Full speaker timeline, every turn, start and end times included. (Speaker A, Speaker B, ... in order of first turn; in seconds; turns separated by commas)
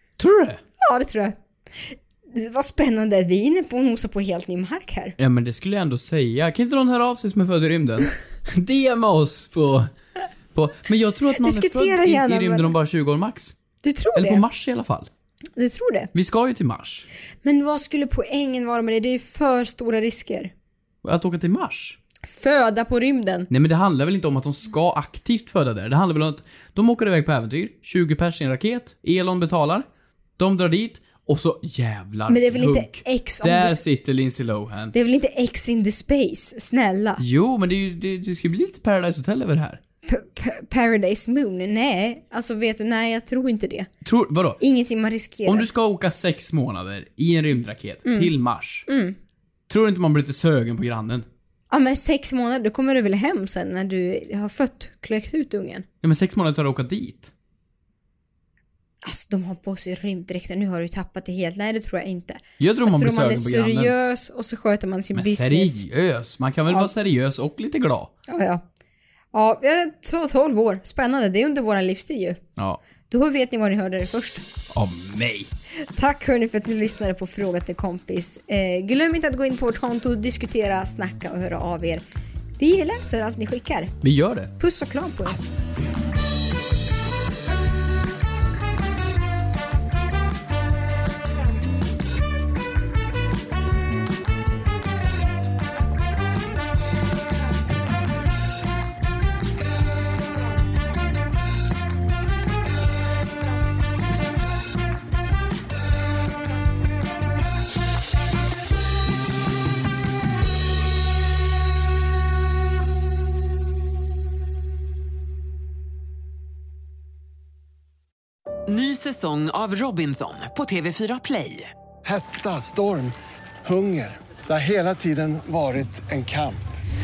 Speaker A: 0.2-0.6, Speaker B: 0.8-5.2, Speaker A: 5.2-9.9, Speaker A: 10.5-13.6, Speaker B: 11.4-12.7, Speaker B: 13.8-14.4, Speaker A: 14.2-15.1, Speaker B: 15.6-16.1, Speaker A: 16.1-17.1, Speaker B: 17.4-20.5, Speaker A: 21.0-22.0, Speaker B: 22.3-23.5, Speaker A: 23.5-29.9, Speaker A: 30.4-34.9, Speaker B: 32.3-33.8, Speaker B: 34.9-37.2, Speaker A: 37.2-39.8, Speaker B: 40.1-43.9, Speaker A: 44.0-44.6, Speaker B: 44.6-45.7, Speaker A: 45.5-48.9, Speaker B: 48.1-48.3, Speaker B: 48.9-49.2, Speaker A: 49.7-51.3, Speaker B: 51.7-55.9, Speaker A: 56.0-57.3, Speaker B: 59.0-65.8, Speaker A: 62.6-63.9, Speaker A: 65.1-68.1, Speaker B: 68.3-68.6, Speaker B: 69.3-72.4, Speaker B: 73.1-74.5, Speaker A: 74.7-75.5, Speaker B: 75.8-82.0, Speaker B: 82.6-83.9, Speaker A: 84.0-84.5, Speaker B: 84.6-85.4, Speaker C: 118.7-121.7, Speaker D: 122.0-126.7